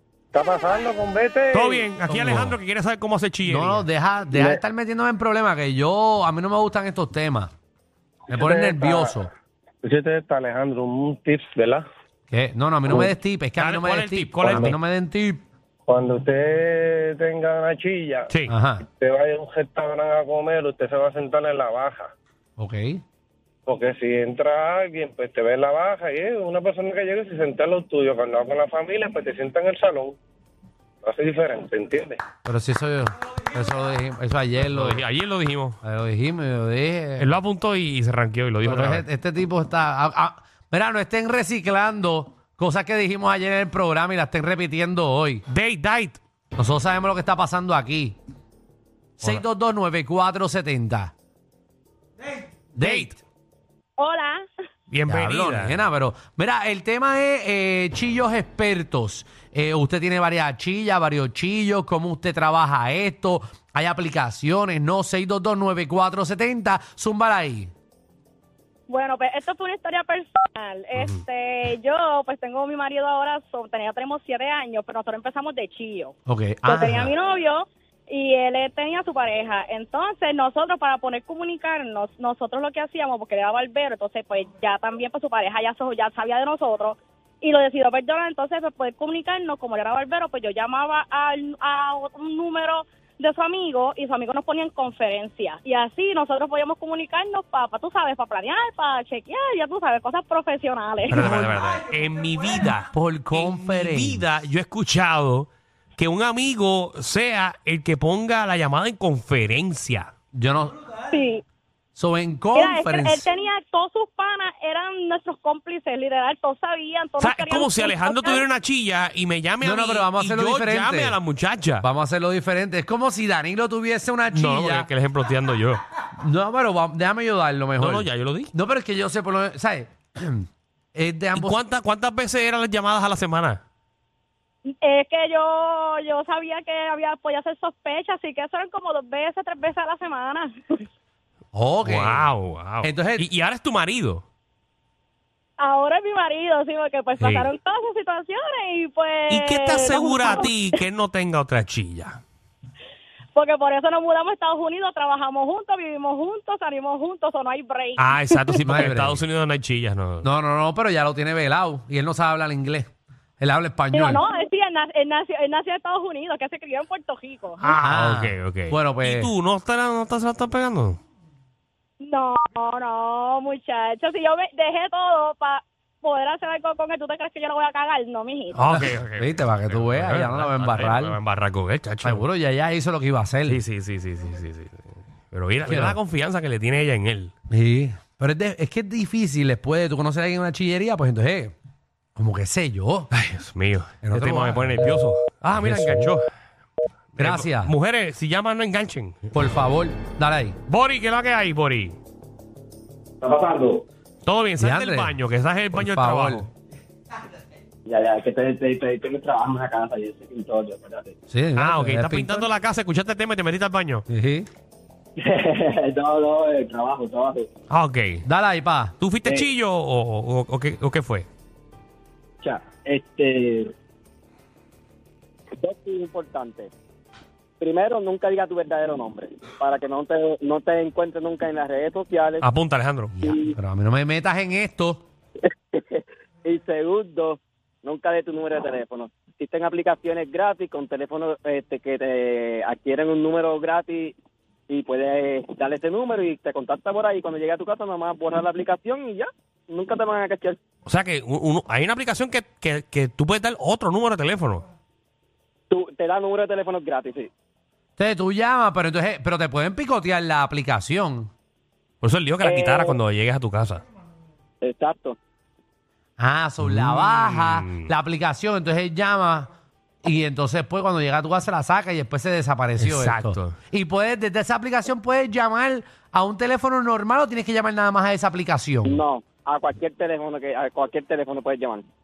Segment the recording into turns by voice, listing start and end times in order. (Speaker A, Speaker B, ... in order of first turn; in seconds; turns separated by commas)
Speaker A: 0.3-1.9, Speaker B: 1.5-3.9, Speaker C: 2.1-2.6, Speaker C: 3.5-7.5, Speaker A: 4.3-4.6, Speaker A: 8.3-9.1, Speaker C: 8.3-9.3, Speaker A: 9.8-11.8, Speaker C: 12.3-15.4, Speaker B: 13.6-14.8, Speaker A: 15.9-18.3, Speaker C: 18.5-18.9, Speaker A: 19.0-22.1, Speaker C: 22.6-23.0, Speaker A: 23.7-30.2, Speaker A: 31.0-32.2, Speaker C: 32.5-35.0, Speaker B: 34.7-35.8, Speaker C: 35.8-37.3, Speaker B: 37.2-39.0, Speaker C: 38.6-45.4, Speaker B: 45.5-46.2, Speaker C: 46.6-48.2, Speaker C: 49.2-51.1, Speaker C: 52.8-53.2, Speaker B: 52.8-53.1, Speaker D: 54.0-54.5, Speaker B: 54.9-55.8, Speaker C: 55.1-67.7, Speaker D: 68.9-101.3, Speaker C: 76.3-77.1, Speaker B: 101.1-110.1, Speaker C: 101.1-101.6, Speaker C: 102.9-104.3, Speaker C: 110.3-110.8, Speaker D: 111.1-111.4, Speaker C: 112.0-113.2, Speaker D: 112.5-118.5, Speaker B: 117.2-121.8, Speaker C: 119.6-121.2, Speaker C: 121.8-124.9, Speaker B: 124.3-125.8, Speaker C: 126.1-131.6, Speaker B: 127.8-128.5, Speaker B: 131.4-133.6, Speaker D: 134.7-140.8, Speaker C: 141.5-142.3, Speaker B: 141.8-144.2, Speaker C: 142.8-143.3, Speaker D: 145.6-150.6, Speaker B: 147.2-147.5, Speaker B: 149.3-152.2, Speaker D: 153.3-158.7, Speaker B: 158.0-160.2, Speaker C: 158.6-159.2, Speaker C: 160.2-162.9, Speaker C: 163.4-164.2, Speaker D: 163.9-167.8, Speaker B: 167.6-171.0, Speaker C: 167.8-169.3, Speaker D: 172.0-178.6, Speaker B: 178.5-182.2, Speaker C: 179.2-181.2, Speaker C: 182.0-183.6, Speaker B: 183.5-187.3, Speaker C: 185.6-186.0, Speaker C: 187.5-191.5, Speaker C: 192.2-193.1, Speaker B: 193.1-196.3, Speaker C: 194.0-196.2, Speaker B: 197.2-199.3, Speaker C: 197.2-197.7, Speaker C: 199.3-200.6, Speaker B: 200.7-202.0, Speaker E: 203.2-203.8, Speaker B: 204.2-206.5, Speaker C: 204.6-205.2, Speaker C: 205.7-206.5, Speaker E: 207.9-211.1, Speaker C: 211.3-212.5, Speaker B: 211.6-214.1, Speaker C: 214.1-214.5, Speaker E: 215.2-217.5, Speaker B: 217.7-218.2, Speaker C: 218.2-219.0, Speaker B: 219.0-221.3, Speaker E: 222.4-223.7, Speaker E: 225.6-226.7, Speaker E: 227.6-232.4, Speaker B: 232.4-233.1, Speaker C: 233.1-235.0, Speaker E: 233.2-233.6, Speaker E: 235.7-244.1, Speaker E: 244.7-250.6, Speaker B: 250.9-254.7, Speaker E: 255.7-257.3, Speaker C: 258.0-261.3, Speaker B: 262.0-263.8, Speaker E: 262.4-263.0, Speaker E: 264.6-265.2, Speaker C: 266.2-269.5, Speaker B: 266.6-267.9, Speaker C: 270.0-279.0, Speaker B: 272.8-273.6, Speaker E: 278.9-281.9